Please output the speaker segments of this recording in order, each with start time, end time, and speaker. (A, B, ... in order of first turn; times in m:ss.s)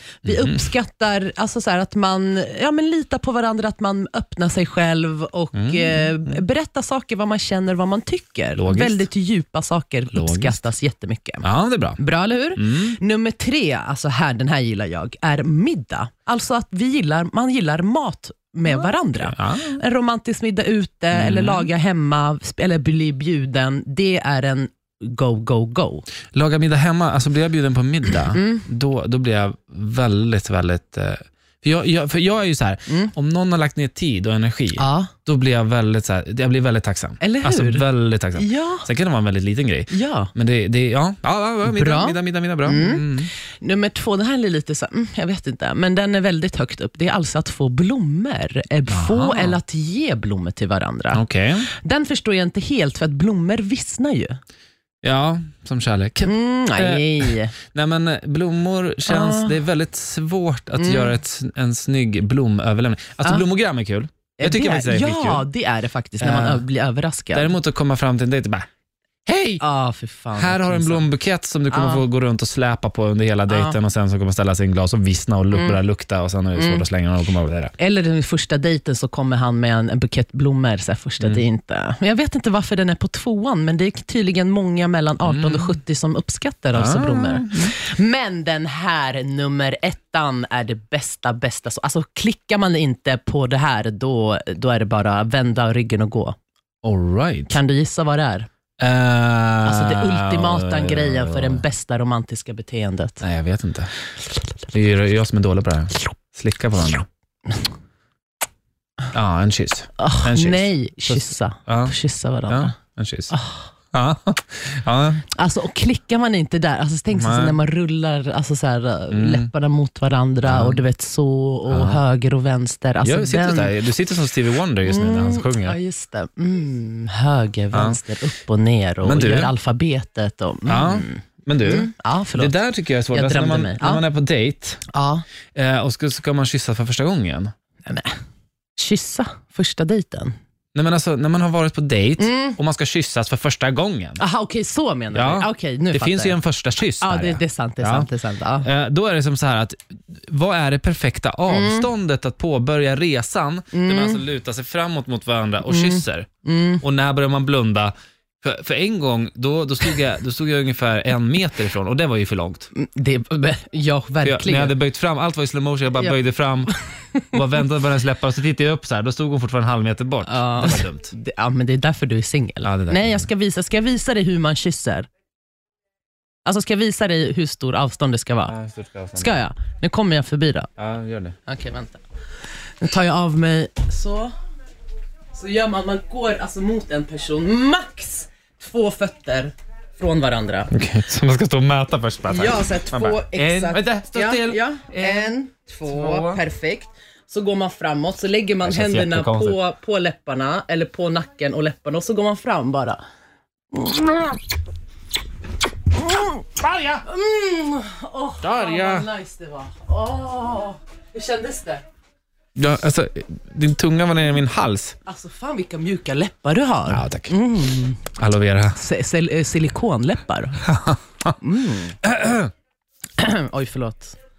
0:00.2-0:11.4 A
0:00.2-0:00.7 B
0:05.5-0:06.4 B
0:08.6-0:09.1 B
0:10.1-0:10.6 B
0:11.4-0:12.0 B
0:12.0-0:26.1 A
0:12.6-0:13.0 B
0:18.7-0:19.8 B
0:21.1-0:21.7 B
0:26.3-0:43.3 B
0:28.3-0:28.7 A
0:34.8-0:35.1 A
0:37.2-0:37.8 A
0:38.4-0:38.9 A
0:39.9-0:40.3 A
0:41.6-0:54.4 A
0:48.9-0:49.6 B
0:51.1-0:51.7 B
0:55.0-1:05.4 B
0:56.2-0:57.6 A
0:59.1-0:59.6 A
1:00.8-1:01.2 A
1:04.4-1:07.5 A
1:06.2-1:06.6 B
1:07.3-1:08.7 B
1:09.3-1:09.6 B
1:09.6-1:11.1 A
1:10.3-1:17.7 B
1:11.7-1:12.0 A
1:13.5-1:13.8 A
1:15.5-1:15.8 A
1:16.6-1:16.8 A
1:17.8-1:36.4 A
1:25.2-1:25.7 B
1:26.8-1:27.7 B
1:36.8-1:37.6 B
1:37.5-1:38.5 A
1:38.8-1:41.6 B
1:39.6-1:43.2 A
1:43.2-1:43.9 B
1:44.7-1:47.0 B
1:49.1-1:52.0 B
1:50.0-1:52.8 A
1:52.5-1:53.3 B
1:53.3-1:53.7 A
1:53.9-1:55.2 B
1:55.3-2:03.8 A
1:57.1-1:57.6 B
1:59.1-1:59.5 B
2:00.4-2:00.8 B
2:01.7-2:02.0 B
2:03.0-2:05.8 B
2:04.8-2:12.6 A
2:07.7-2:08.0 B
2:09.0-2:09.5 B
2:10.7-2:14.8 B
2:13.1-2:14.0 A
2:14.9-2:15.2 A
2:15.6-2:17.5 B
2:17.8-2:18.1 A
2:18.8-2:20.3 A
2:20.7-2:24.2 B
2:22.2-2:22.6 A
2:24.2-2:26.4 A
2:25.1-2:28.1 B
2:27.0-2:28.7 A
2:28.6-2:36.3 B
2:31.5-2:31.9 A
2:33.7-2:34.2 A
2:35.7-2:36.8 A
2:36.8-2:42.7 B
2:42.7-2:44.8 A
2:44.2-2:46.8 B
2:46.7-2:47.4 A
2:47.3-2:51.1 B
2:50.2-2:55.1 A
2:52.6-2:53.3 B
2:56.4-2:58.5 A
2:58.5-2:59.3 B
2:59.2-3:00.7 A
3:00.8-3:01.4 B
3:01.5-3:02.0 A
3:02.8-3:04.3 A
3:05.3-3:10.7 A
3:10.7-3:16.4 B
3:12.3-3:23.0 A
3:18.6-3:19.6 B
3:23.7-3:24.4 A
3:26.5-3:27.0 B
3:27.0-3:31.8 A
3:28.4-3:29.1 B
3:32.6-3:35.0 B
3:35.1-3:38.0 A
3:36.9-3:37.3 B
3:38.2-3:38.8 B
3:38.8-3:40.6 A
3:40.6-3:41.4 B
3:41.4-3:42.0 A
3:42.0-3:42.5 B
3:43.2-3:44.2 A